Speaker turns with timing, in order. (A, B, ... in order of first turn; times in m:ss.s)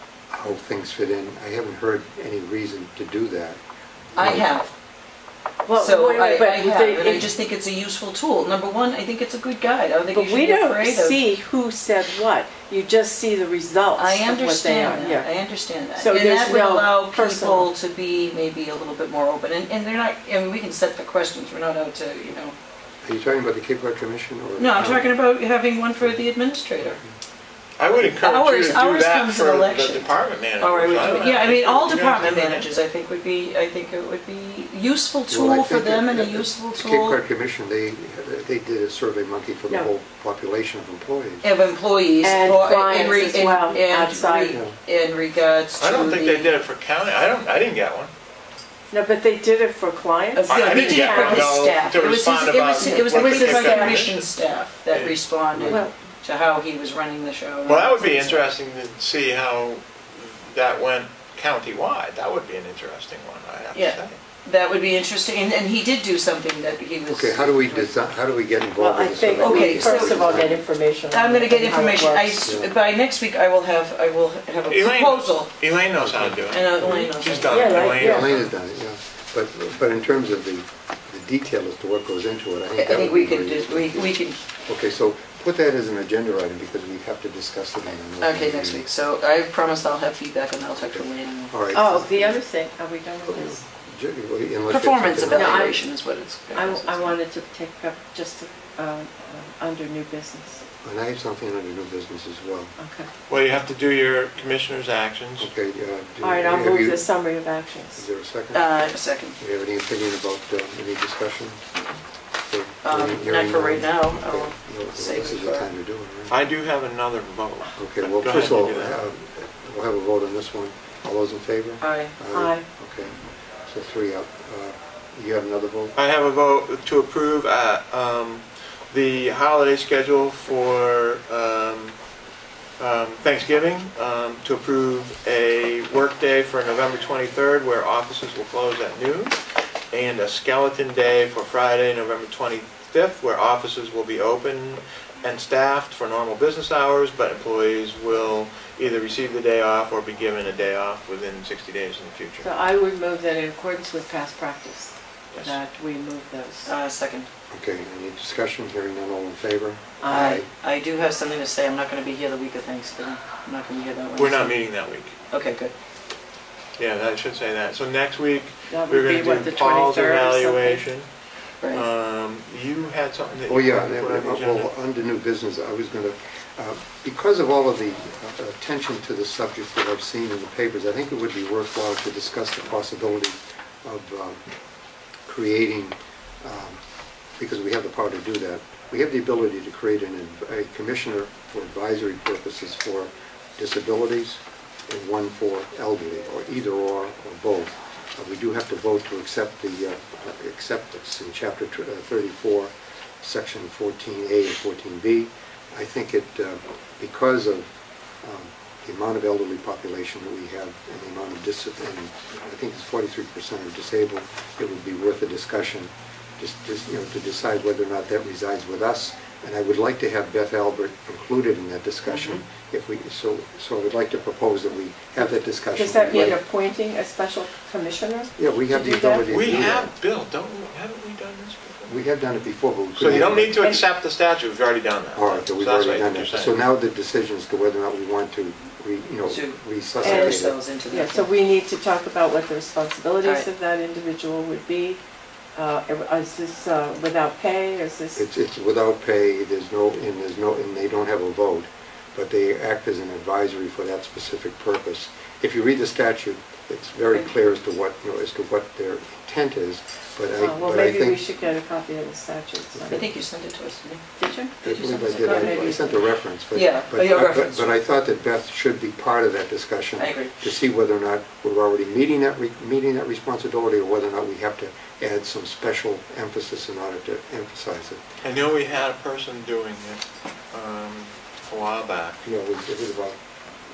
0:00.3-0:03.6 A
0:04.2-0:04.5 A
0:04.2-0:04.7 B
0:05.7-0:07.3 C
0:05.8-0:11.2 B
0:10.1-0:15.3 C
0:14.0-0:22.6 B
0:16.0-0:17.7 C
0:23.0-0:25.2 A
0:24.6-0:27.0 B
0:27.8-0:32.7 D
0:27.9-0:37.2 B
0:35.3-0:41.5 A
0:41.4-0:46.6 B
0:42.2-0:44.6 C
0:44.5-0:44.8 A
0:45.8-0:48.1 D
0:48.9-0:51.5 C
0:50.4-0:58.4 B
0:50.5-0:54.3 D
0:52.8-0:54.0 C
0:54.9-0:55.2 D
0:55.5-0:55.8 A
0:57.6-1:04.2 D
1:03.7-1:08.0 B
1:07.1-1:10.6 A
1:08.8-1:12.4 C
1:09.3-1:10.6 B
1:11.1-1:15.5 B
1:12.4-1:12.7 A
1:14.7-1:18.5 D
1:16.0-1:17.1 A
1:16.5-1:18.0 B
1:17.5-1:18.3 C
1:17.9-1:28.8 A
1:22.7-1:24.4 B
1:28.2-1:31.6 B
1:30.8-1:32.4 A
1:31.7-1:33.6 C
1:33.3-1:35.7 A
1:34.7-1:37.2 B
1:35.3-1:35.9 C
1:36.5-1:40.6 C
1:40.8-1:42.7 A
1:42.8-1:43.1 C
1:43.3-1:45.5 D
1:45.4-1:47.1 A
1:46.2-1:48.1 C
1:48.0-1:48.7 A
1:48.5-1:49.4 B
1:49.4-1:51.6 A
1:52.5-1:56.4 A
1:52.8-1:55.7 B
1:56.3-1:59.0 D
1:57.8-2:03.2 A
2:01.8-2:02.1 B
2:02.3-2:02.6 C
2:03.7-2:06.0 A
2:06.0-2:12.0 D
2:12.8-2:19.4 D
2:19.9-2:32.5 D
2:32.4-2:36.7 C
2:35.3-2:35.6 D
2:36.6-2:37.3 B
2:37.5-2:40.5 A
2:40.0-2:40.4 C
2:40.1-2:44.6 B
2:44.2-2:45.2 D
2:45.3-2:45.7 B
2:46.8-2:51.1 D
2:48.7-2:50.8 C
2:51.7-2:54.7 D
2:53.5-3:04.4 A
3:05.3-3:06.8 A
3:07.4-3:27.7 A
3:28.2-3:46.4 A
3:42.1-3:42.4 B
3:45.8-3:49.4 C
3:48.4-3:49.9 A
3:49.3-3:51.9 D
3:51.9-3:53.6 A
3:53.0-3:56.6 D
3:55.2-4:00.6 A
3:59.3-4:01.3 B
4:00.0-4:05.0 C
4:05.6-4:08.2 C
4:08.2-4:21.2 A
4:20.4-4:23.0 C
4:22.9-4:24.0 B
4:24.2-4:25.9 C
4:24.6-4:25.9 B
4:24.6-4:38.0 A
4:26.5-4:27.8 B
4:30.0-4:30.4 B
4:38.2-4:42.2 D
4:42.2-4:43.2 A